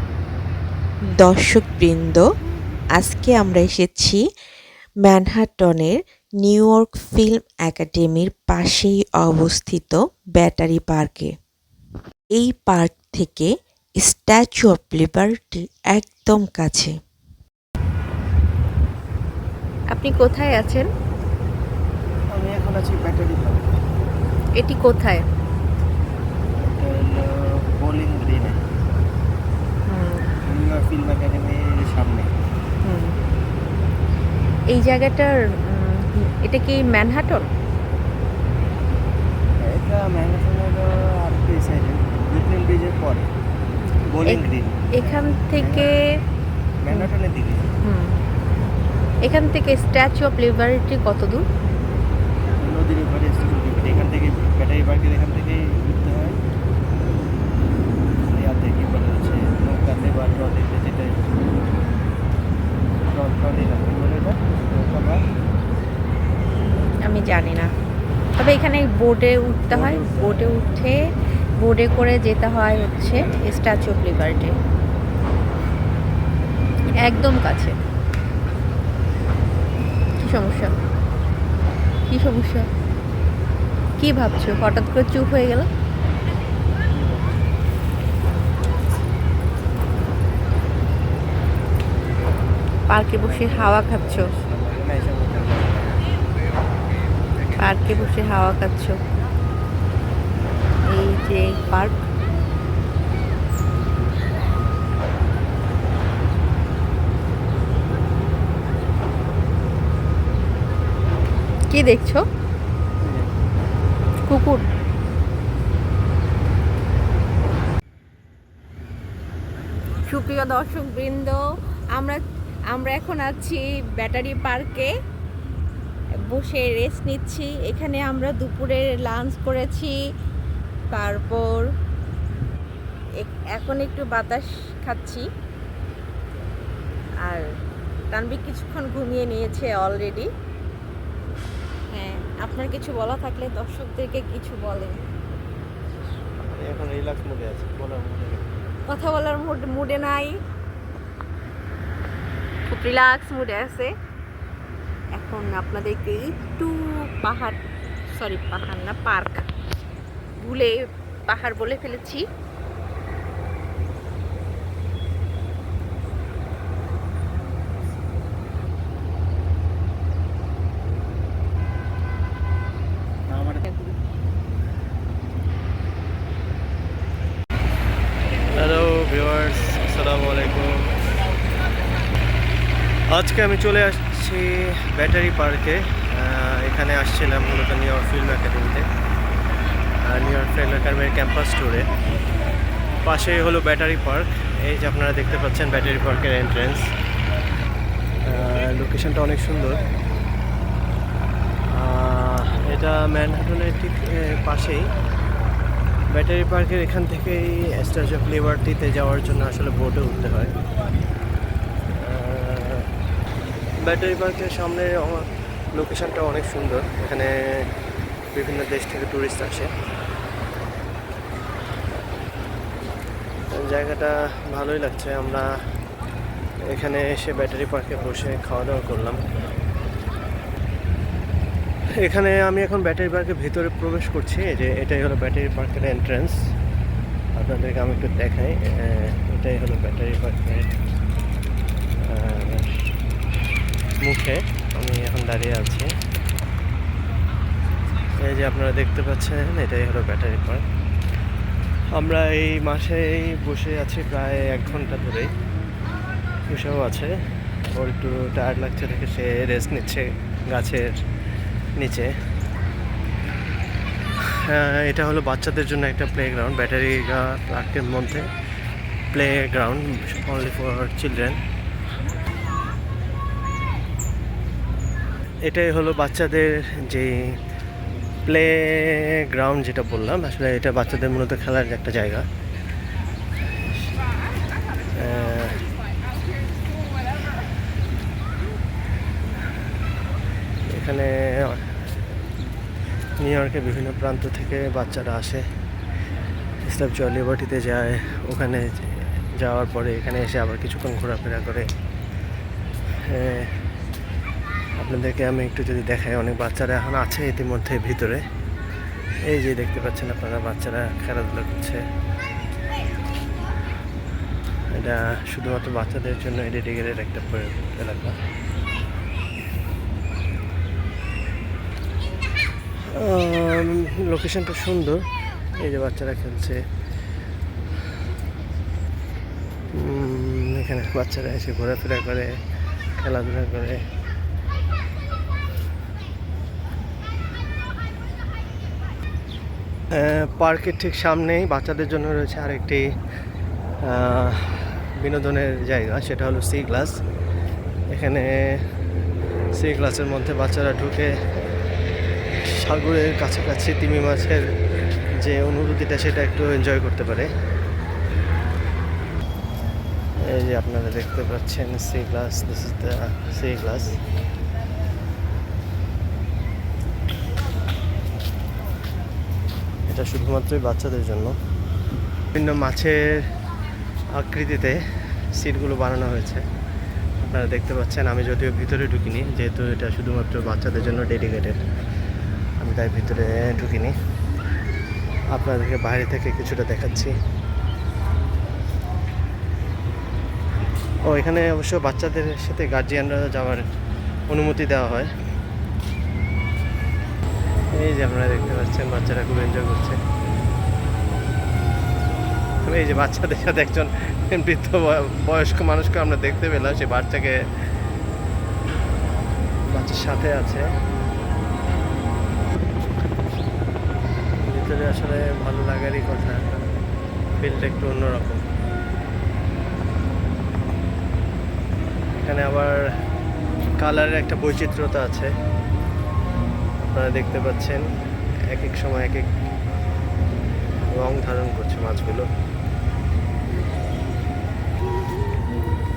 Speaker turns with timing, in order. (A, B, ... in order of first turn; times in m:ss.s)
0:01.0-0:02.3 A
0:03.0-0:04.2 A
0:05.0-0:11.3 A
0:12.3-0:16.9 A
0:19.9-0:20.9 B
0:22.3-0:23.7 C
0:24.6-0:25.2 B
0:26.6-0:28.6 C
0:29.9-0:30.3 B
0:30.4-0:32.3 C
0:32.8-0:33.1 B
0:34.7-0:37.4 B
0:39.6-0:43.3 C
0:44.1-0:45.9 C
0:44.9-0:46.0 B
0:46.8-0:47.6 C
0:47.8-0:48.1 B
0:49.2-0:51.4 B
0:52.6-0:56.4 C
0:58.2-1:01.2 C
1:03.1-1:05.2 C
1:07.0-1:07.7 B
1:08.4-1:11.0 B
1:09.7-1:10.5 C
1:11.6-1:14.5 B
1:17.0-1:17.7 B
1:20.2-1:20.7 B
1:22.1-1:22.6 B
1:24.0-1:25.7 B
1:26.9-1:27.4 C
1:32.9-1:34.3 B
1:33.1-1:36.0 C
1:37.6-1:39.0 B
1:37.8-1:38.0 C
1:40.9-1:41.9 B
1:51.7-1:52.2 B
1:54.3-1:54.6 B
2:00.0-2:01.4 B
2:01.9-2:02.2 B
2:02.7-2:04.9 B
2:06.3-2:10.0 B
2:10.9-2:11.7 B
2:13.2-2:15.2 B
2:18.1-2:20.3 B
2:21.9-2:25.0 B
2:26.4-2:28.4 C
2:28.9-2:30.3 B
2:32.7-2:33.9 B
2:35.2-2:37.6 B
2:38.2-2:39.4 B
2:40.4-2:42.2 B
2:53.3-2:53.6 C
2:58.5-3:00.7 C
3:03.1-3:08.8 C
3:10.0-3:11.9 C
3:13.0-3:16.9 C
3:18.2-3:19.8 C
3:21.7-3:24.8 C
3:26.1-3:30.5 C
3:31.9-3:32.8 C
3:33.8-3:37.7 C
3:38.3-3:39.7 C
3:43.5-3:45.4 C
3:46.6-3:49.2 C
3:52.0-3:56.4 C
3:57.4-4:00.7 C
4:02.0-4:02.7 C
4:04.0-4:05.9 C
4:08.2-4:10.6 C
4:11.9-4:15.3 C
4:16.5-4:17.1 C
4:17.7-4:20.9 C
4:21.8-4:22.1 C
4:24.4-4:28.2 C
4:29.1-4:31.4 C
4:35.4-4:37.1 C
4:38.3-4:42.2 C
4:44.9-4:45.7 C
4:50.7-4:51.6 C
4:53.2-4:55.4 C
4:56.6-5:01.7 C
5:03.0-5:03.5 C
5:04.8-5:08.2 C
5:09.3-5:11.8 C
5:14.7-5:18.1 C
5:22.9-5:25.0 C
5:25.6-5:26.6 C
5:29.7-5:32.3 C
5:33.0-5:33.8 C
5:39.9-5:42.8 C
5:43.8-5:46.9 C
5:47.9-5:48.6 C
5:49.6-5:51.1 C
5:52.6-5:54.4 C
5:55.2-5:57.3 C
6:00.2-6:04.0 C
6:09.9-6:11.3 C
6:12.3-6:13.0 C
6:14.2-6:14.8 C
6:15.4-6:16.4 C
6:17.2-6:21.6 C
6:22.6-6:23.9 C
6:25.3-6:27.1 C
6:31.0-6:33.6 C
6:34.3-6:35.1 C
6:37.7-6:40.0 C
6:42.6-6:47.4 C
6:49.7-6:50.6 C
6:54.5-6:56.6 C
6:57.4-6:58.4 C
7:02.2-7:02.8 C
7:03.8-7:05.3 C
7:06.8-7:07.8 C
7:08.5-7:09.2 C
7:10.8-7:12.3 C